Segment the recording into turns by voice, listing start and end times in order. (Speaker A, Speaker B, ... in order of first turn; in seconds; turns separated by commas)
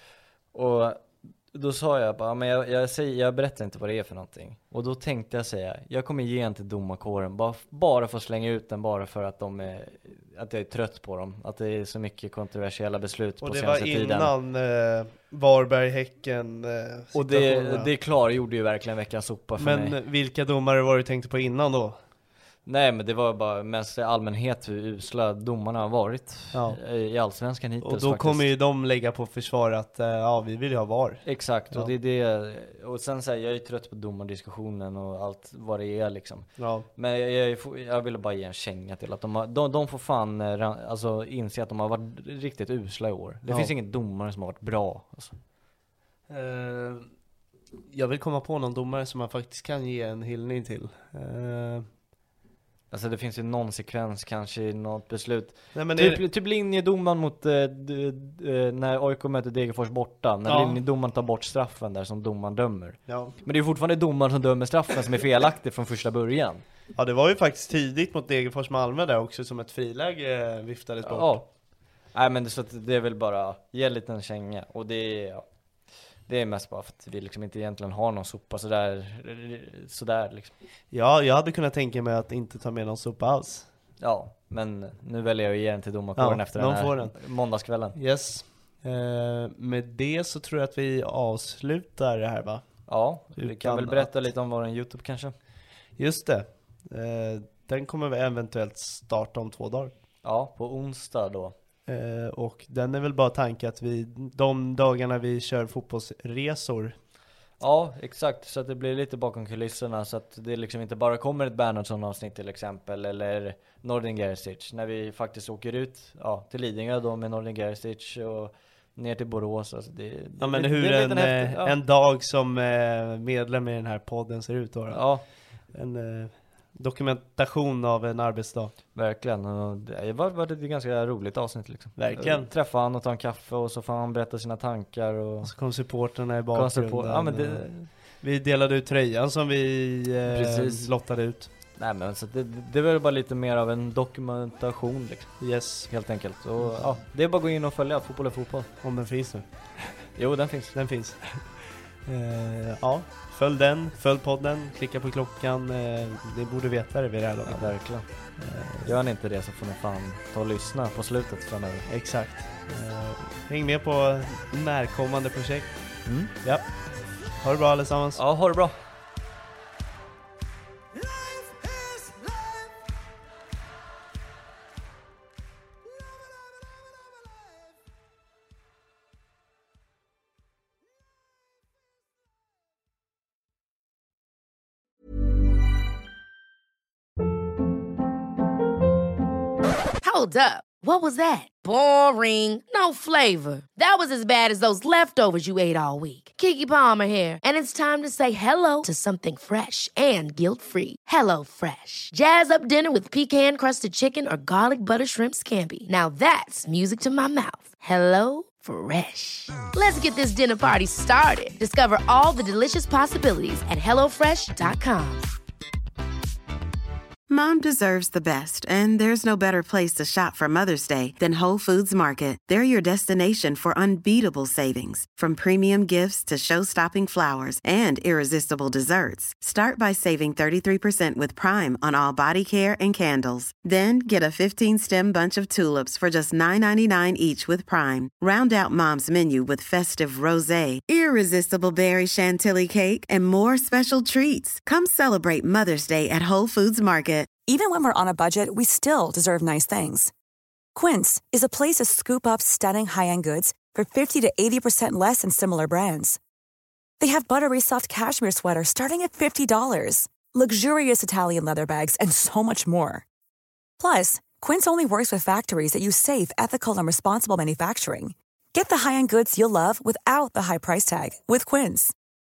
Speaker A: 0.5-14.3, Speaker B: 13.4-17.9, Speaker A: 17.1-19.9, Speaker B: 19.6-22.0, Speaker A: 22.6-28.5, Speaker B: 26.5-26.8, Speaker B: 27.8-31.9, Speaker A: 31.2-45.4, Speaker B: 36.6-36.9, Speaker B: 46.3-47.1, Speaker B: 47.9-51.9, Speaker A: 52.9-66.6, Speaker B: 55.7-56.2, Speaker B: 60.5-60.8, Speaker B: 63.1-63.4, Speaker B: 66.9-71.4, Speaker A: 71.0-71.5, Speaker A: 72.1-75.4, Speaker A: 76.3-80.5, Speaker B: 80.9-83.7, Speaker A: 84.0-88.0, Speaker B: 86.2-87.1, Speaker B: 88.0-92.7, Speaker A: 92.9-95.3, Speaker B: 93.4-94.1, Speaker B: 96.0-99.9, Speaker A: 100.2-101.5, Speaker B: 101.9-107.0, Speaker A: 107.6-121.8, Speaker B: 120.4-125.0, Speaker A: 124.9-125.2, Speaker B: 125.7-128.7, Speaker A: 128.9-135.5, Speaker B: 132.0-132.5, Speaker B: 135.4-137.7, Speaker A: 136.5-137.9, Speaker B: 138.2-141.5, Speaker A: 140.3-140.9, Speaker A: 141.8-145.3, Speaker B: 145.4-145.9, Speaker A: 145.9-148.7, Speaker B: 146.6-146.9, Speaker B: 148.8-149.9, Speaker A: 150.2-150.8, Speaker B: 150.7-151.5, Speaker B: 152.1-157.7, Speaker A: 157.4-158.1, Speaker B: 158.4-158.9, Speaker A: 158.8-161.8, Speaker B: 161.9-165.8, Speaker A: 166.1-166.3, Speaker B: 167.4-168.2, Speaker A: 168.2-168.8, Speaker C: 190.0-215.3, Speaker D: 217.3-247.4, Speaker E: 247.4-250.1, Speaker E: 250.7-256.2, Speaker E: 257.0-263.0, Speaker E: 263.8-271.9